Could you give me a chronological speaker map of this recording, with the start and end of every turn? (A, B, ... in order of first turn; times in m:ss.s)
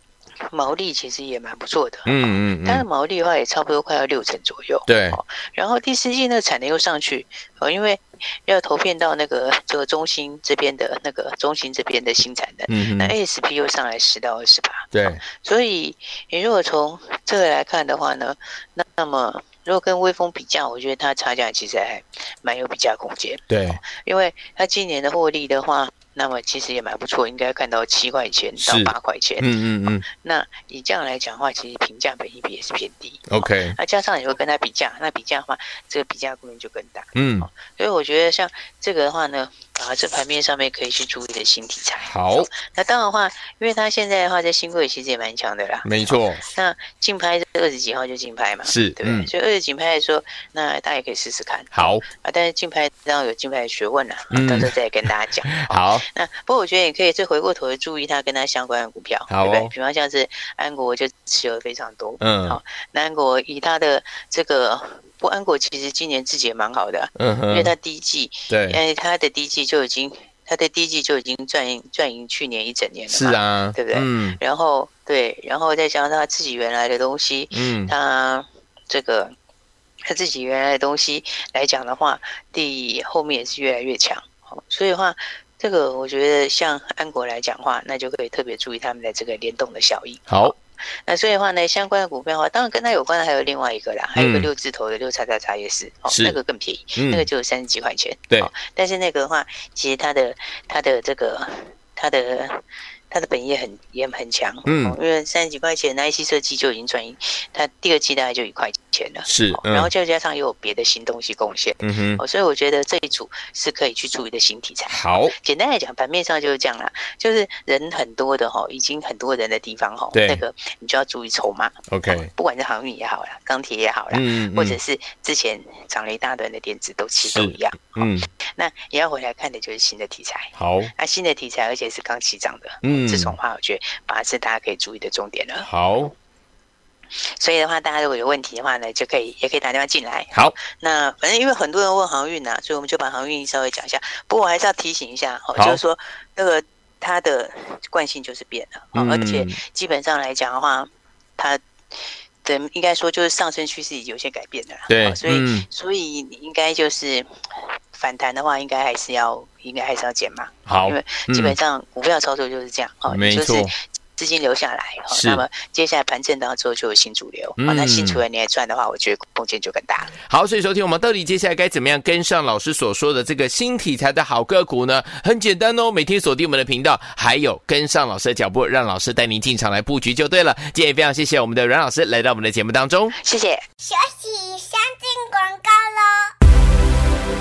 0:00.5-0:29.5 A
0:02.0-0:02.8 B
0:04.9-0:05.2 B
0:12.7-0:13.1 B
0:14.9-0:15.2 B
0:23.5-0:23.8 B
0:28.6-0:30.0 B
0:30.1-1:19.3 A
0:33.3-0:33.8 B
0:37.2-0:37.5 B
0:42.0-0:42.5 B
0:45.8-0:46.4 B
0:48.7-0:49.3 B
0:51.7-0:52.0 B
0:54.3-0:54.7 B
0:55.5-0:56.0 B
0:59.3-0:59.7 B
1:02.2-1:02.6 B
1:07.2-1:07.7 B
1:08.5-1:08.8 B
1:13.1-1:14.4 B
1:17.5-1:17.9 B
1:20.1-2:15.7 A
1:30.3-1:30.5 B
1:34.2-1:34.5 B
1:36.1-1:36.4 B
1:37.0-1:37.3 B
1:44.6-1:45.0 B
1:49.2-1:49.9 B
1:51.8-1:52.2 B
1:54.9-1:55.3 B
2:00.1-2:00.4 B
2:01.9-2:02.3 B
2:04.1-2:04.8 B
2:07.2-2:08.3 B
2:10.6-2:10.9 B
2:12.8-2:13.3 B
2:15.6-2:16.1 B
2:17.3-2:31.6 A
2:28.9-2:29.6 B
2:32.4-2:37.3 A
2:34.9-2:35.6 B
2:37.9-2:50.2 A
2:40.7-2:41.6 B
2:43.1-2:43.7 B
2:45.1-2:45.4 B
2:47.6-2:48.2 B
2:50.3-3:03.1 B
3:03.2-3:03.6 A
3:03.8-3:06.3 C